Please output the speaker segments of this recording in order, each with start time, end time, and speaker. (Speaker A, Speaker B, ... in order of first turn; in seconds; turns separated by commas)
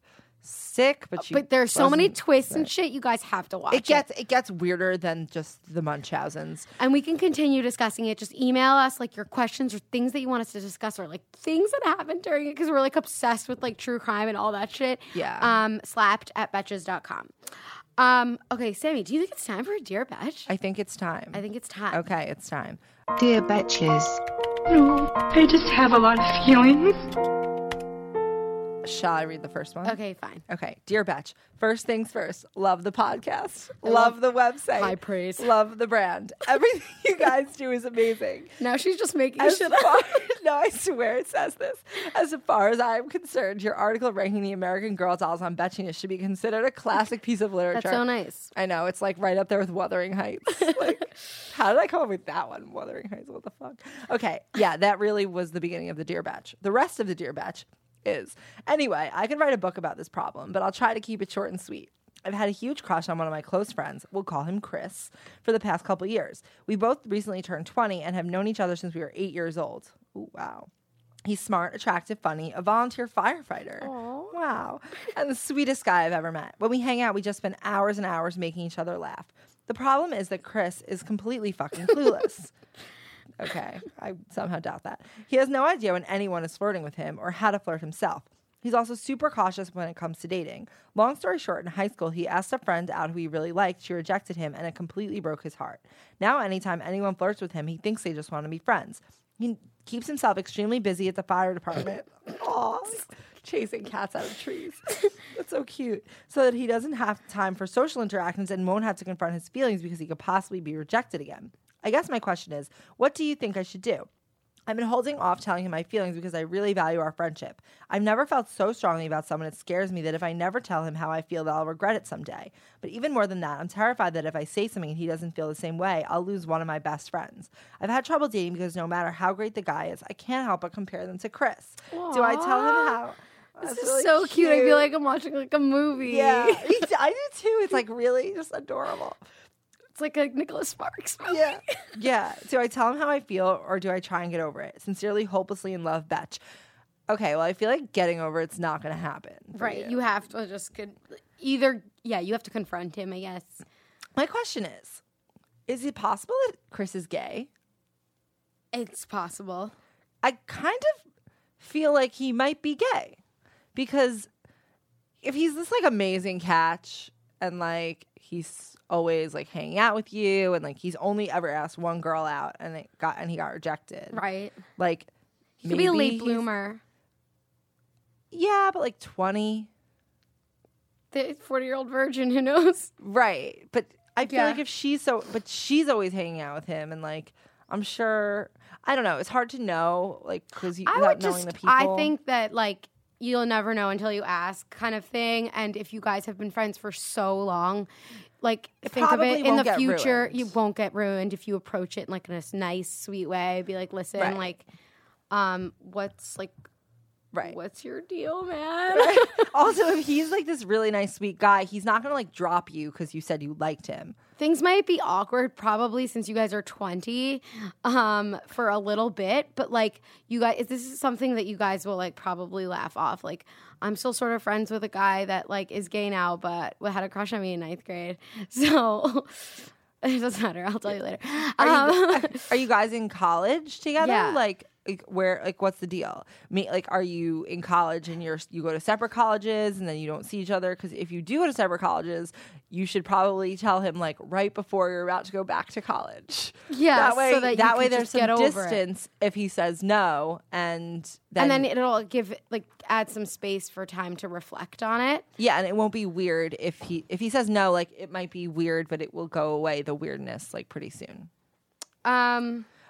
Speaker A: 0.4-2.7, Speaker B: 1.2-4.0, Speaker A: 3.7-6.7, Speaker B: 6.8-17.3, Speaker A: 15.1-15.5, Speaker B: 18.0-20.5, Speaker A: 20.5-22.8, Speaker B: 21.3-22.0, Speaker C: 23.2-27.1, Speaker A: 28.8-38.6, Speaker B: 29.8-30.4, Speaker B: 33.8-34.2, Speaker B: 34.7-35.5, Speaker B: 38.6-40.2, Speaker A: 39.4-70.7, Speaker B: 47.7-48.5, Speaker A: 71.2-82.5, Speaker B: 73.8-74.3, Speaker A: 83.4-114.1, Speaker A: 114.7-134.9, Speaker B: 131.9-133.0, Speaker B: 133.6-136.9, Speaker A: 136.0-139.2, Speaker B: 139.9-141.9, Speaker A: 141.3-146.4, Speaker A: 147.1-150.0, Speaker B: 149.6-153.6, Speaker A: 154.2-155.0, Speaker A: 155.7-157.5, Speaker B: 158.7-159.8, Speaker A: 160.2-161.0, Speaker A: 161.6-163.2, Speaker A: 163.8-164.3, Speaker A: 165.2-174.2, Speaker B: 174.1-174.6, Speaker A: 174.8-175.1, Speaker A: 175.6-176.5, Speaker B: 175.6-176.8, Speaker A: 178.3-179.7, Speaker B: 181.1-182.9, Speaker A: 183.0-192.1, Speaker B: 184.2-184.6, Speaker B: 190.9-197.9, Speaker B: 198.4-204.7, Speaker A: 198.8-200.5, Speaker A: 204.2-204.4, Speaker B: 205.3-206.5, Speaker B: 207.4-209.5, Speaker A: 208.9-214.2, Speaker B: 214.4-232.5, Speaker A: 231.6-251.7, Speaker B: 234.0-234.4, Speaker B: 246.7-248.8, Speaker B: 251.4-255.3, Speaker A: 255.4-261.3, Speaker B: 262.0-262.7